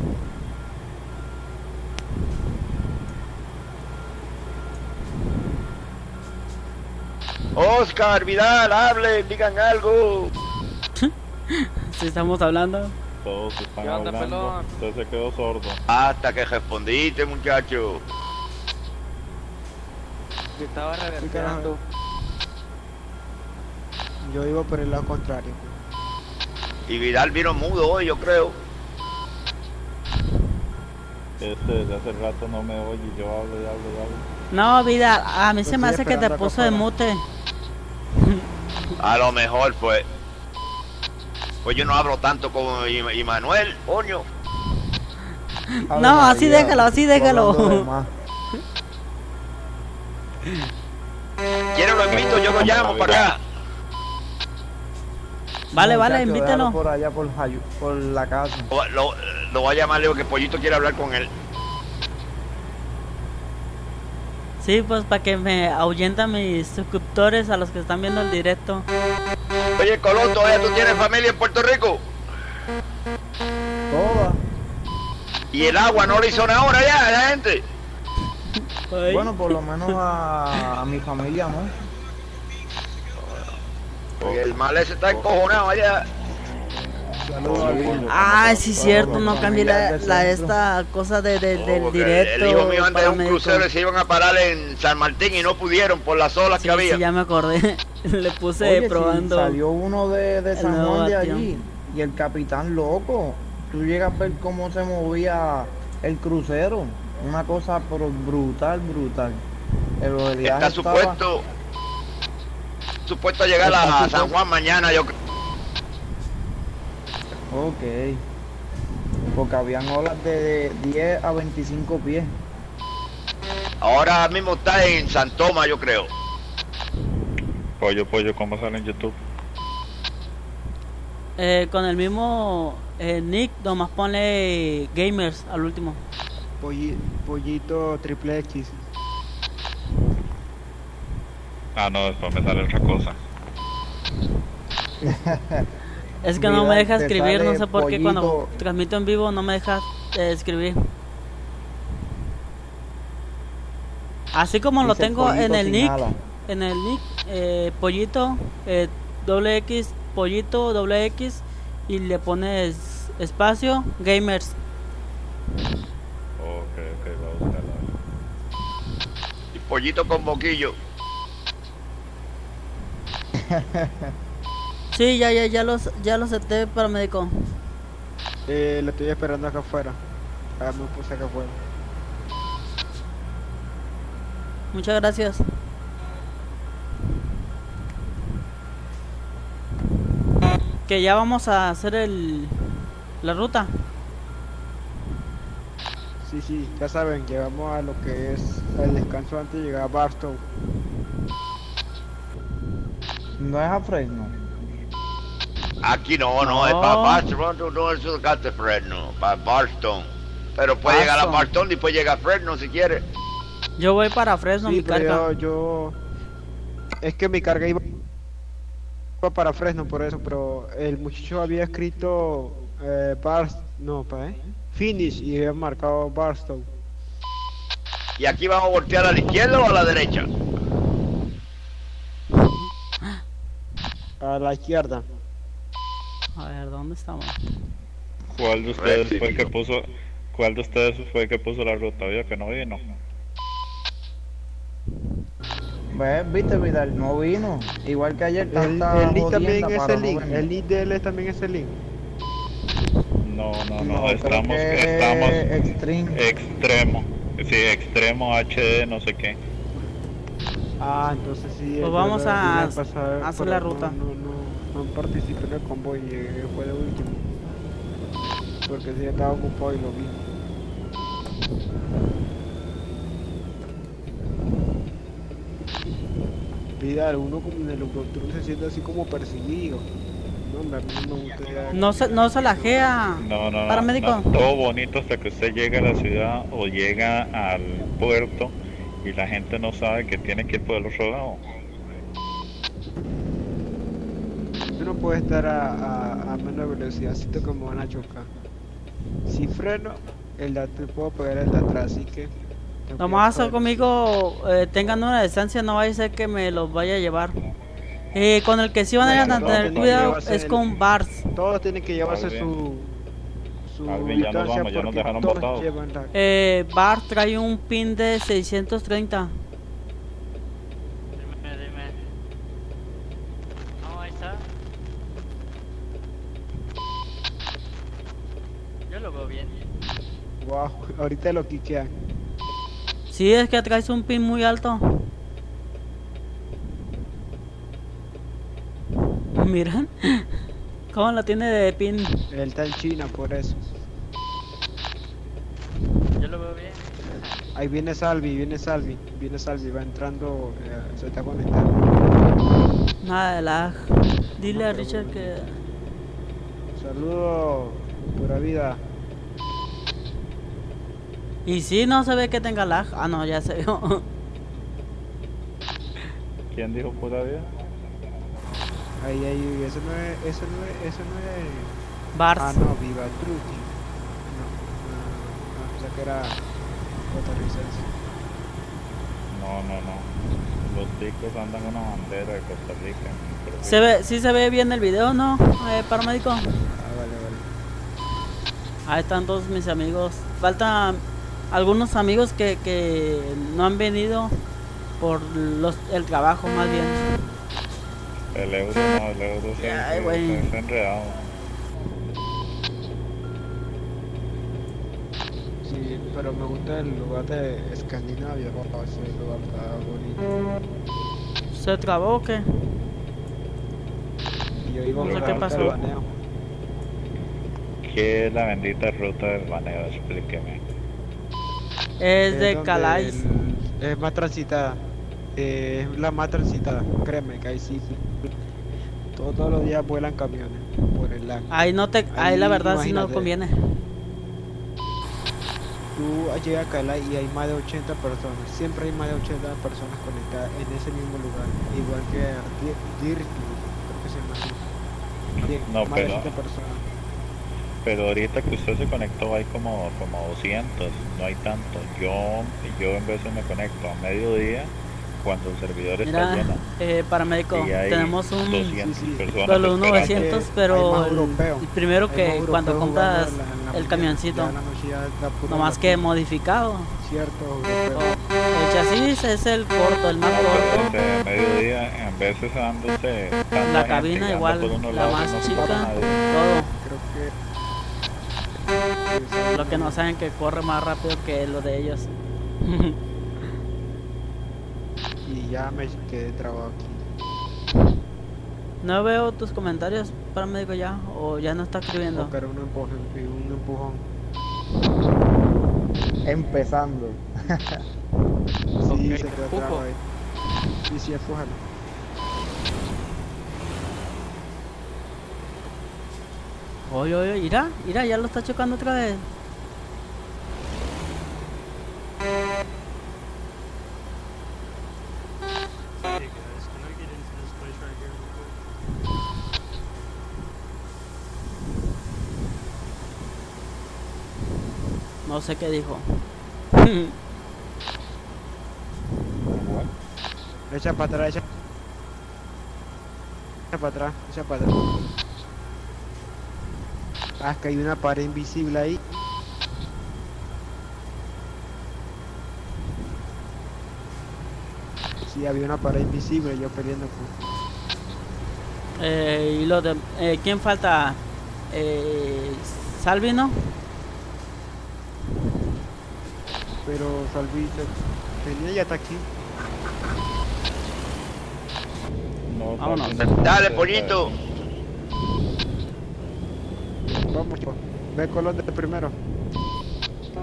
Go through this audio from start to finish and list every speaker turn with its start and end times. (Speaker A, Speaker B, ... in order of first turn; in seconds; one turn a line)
Speaker A: 7.6-10.3
Speaker B: 11.0-12.9
Speaker C: 13.2-15.8
Speaker D: 13.8-14.7
Speaker A: 15.9-18.0
Speaker D: 20.6-21.8
Speaker E: 21.2-21.8
Speaker E: 24.2-25.7
Speaker A: 26.9-28.6
Speaker C: 31.4-34.2
Speaker B: 34.5-37.2
Speaker E: 35.6-36.9
Speaker A: 39.0-40.0
Speaker A: 41.6-44.2
Speaker B: 45.8-47.9
Speaker F: 45.9-48.1
Speaker A: 51.8-53.4
Speaker C: 52.1-53.3
Speaker B: 55.7-56.8
Speaker F: 55.7-58.7
Speaker A: 58.7-61.3
Speaker B: 64.6-68.9
Speaker A: 69.8-72.0
Speaker F: 73.9-74.4
Speaker A: 75.5-77.6
Speaker B: 78.9-80.0
Speaker F: 79.1-81.7
Speaker C: 84.2-84.5
Speaker A: 84.2-86.0
Speaker E: 87.2-88.2
Speaker C: 87.4-89.4
Speaker F: 87.5-88.1
Speaker B: 88.1-93.7
Speaker E: 88.8-89.6
Speaker F: 88.9-90.5
Speaker A: 91.6-97.0
Speaker B: 96.5-99.6
Speaker F: 98.6-109.4
Speaker B: 100.5-101.5
Speaker F: 110.0-111.2
Speaker A: 110.4-111.4
Speaker A: 113.1-115.1
Speaker F: 113.6-114.4
Speaker F: 117.5-118.2
Speaker F: 119.3-122.3
Speaker A: 123.8-126.1
Speaker C: 127.8-129.2
Speaker B: 131.4-136.0
Speaker E: 136.6-138.8
Speaker C: 141.8-143.2
Speaker F: 145.0-145.7
Speaker B: 146.2-150.9
Speaker F: 146.4-148.5
Speaker B: 154.3-164.6
Speaker F: 154.8-156.2
Speaker C: 166.4-167.9
Speaker A: 169.5-170.8
Speaker F: 173.4-174.1
Speaker B: 174.9-177.5
Speaker E: 178.5-180.0
Speaker E: 180.6-181.6
Speaker B: 184.7-185.4
Speaker B: 190.8-192.6
Speaker B: 193.2-193.7
Speaker E: 196.2-200.4
Speaker F: 203.4-204.3
Speaker A: 205.8-213.0
Speaker B: 206.4-207.2
Speaker B: 210.8-211.5
Speaker B: 213.8-215.3
Speaker E: 214.6-216.0
Speaker E: 217.0-217.9
Speaker E: 219.2-226.7
Speaker A: 228.2-230.3
Speaker E: 234.2-235.1
Speaker B: 236.4-237.3
Speaker C: 238.3-242.8
Speaker A: 238.8-239.4
Speaker F: 245.9-250.5
Speaker E: 248.5-251.8
Speaker C: 253.2-255.5
Speaker E: 253.8-254.2
Speaker F: 254.0-256.2
Speaker C: 256.1-259.4
Speaker E: 260.8-267.3
Speaker B: 261.8-264.0
Speaker E: 268.6-270.2
Speaker E: 276.8-279.9
Speaker E: 280.4-282.8
Speaker B: 281.7-284.3
Speaker C: 283.2-291.4
Speaker E: 294.8-298.3
Speaker E: 299.3-302.3
Speaker E: 302.9-303.9
Speaker B: 303.0-307.4
Speaker B: 308.1-311.2
Speaker C: 309.0-310.3
Speaker E: 309.0-310.7
Speaker E: 311.3-312.9
Speaker C: 312.0-312.5
Speaker E: 313.7-316.1
Speaker C: 313.9-315.7
Speaker B: 316.1-319.3
Speaker G: 321.2-322.0
Speaker G: 323.8-324.4
Speaker G: 328.9-329.6
Speaker E: 330.4-331.9
Speaker B: 333.1-335.1
Speaker B: 339.3-340.3
Speaker B: 340.9-342.3
Speaker E: 342.3-343.6
Speaker G: 346.2-347.3
Speaker E: 347.6-351.9
Speaker B: 353.0-355.6
Speaker E: 354.5-355.3
Speaker E: 356.8-358.8
Speaker B: 361.5-364.1
Speaker C: 366.5-367.5
Speaker E: 369.0-371.7
Speaker B: 372.2-372.6
Speaker E: 372.4-373.7
Speaker E: 374.3-376.4
Speaker E: 377.1-377.9
Speaker C: 379.3-380.1
Speaker C: 380.6-383.9
Speaker B: 383.6-386.6
Speaker E: 386.8-387.5
Speaker B: 388.9-394.3
Speaker B: 395.0-397.2
Speaker C: 398.3-401.3
Speaker B: 399.6-400.5
Speaker E: 405.6-410.4
Speaker B: 411.5-412.6
Speaker E: 414.6-416.1
Speaker C: 415.0-415.9
Speaker B: 415.0-415.8
Speaker C: 417.8-420.6
Speaker B: 422.0-423.5
Speaker E: 422.3-424.8
Speaker E: 425.4-428.3
Speaker E: 429.2-431.5
Speaker B: 431.5-433.9
Speaker E: 432.1-433.3
Speaker E: 435.9-444.6
Speaker E: 445.4-446.8
Speaker C: 445.6-446.3
Speaker C: 447.8-456.6
Speaker B: 456.0-458.8
Speaker C: 457.5-460.4
Speaker E: 458.8-459.3
Speaker B: 459.4-464.6
Speaker E: 459.9-466.1
Speaker B: 465.5-466.9
Speaker E: 467.0-468.3
Speaker B: 467.9-470.9
Speaker C: 470.3-476.3
Speaker B: 473.6-476.7
Speaker E: 475.6-476.1
Speaker E: 476.7-477.3
Speaker E: 479.1-480.0
Speaker B: 479.5-482.1
Speaker B: 482.6-483.0
Speaker E: 485.2-487.0
Speaker B: 488.8-492.3
Speaker E: 492.1-494.0
Speaker F: 496.2-497.8
Speaker E: 498.8-500.0
Speaker D: 498.9-499.9
Speaker E: 500.9-501.6
Speaker B: 506.9-509.2
Speaker G: 516.1-518.5
Speaker B: 525.3-527.1
Speaker C: 529.5-529.9
Speaker E: 530.7-531.4
Speaker E: 533.7-535.1
Speaker E: 537.4-539.0
Speaker E: 545.3-547.3
Speaker B: 549.0-551.2
Speaker B: 551.7-553.7
Speaker E: 556.9-559.3
Speaker C: 562.5-564.4
Speaker B: 562.8-563.5
Speaker A: 563.4-564.3
Speaker E: 567.2-569.1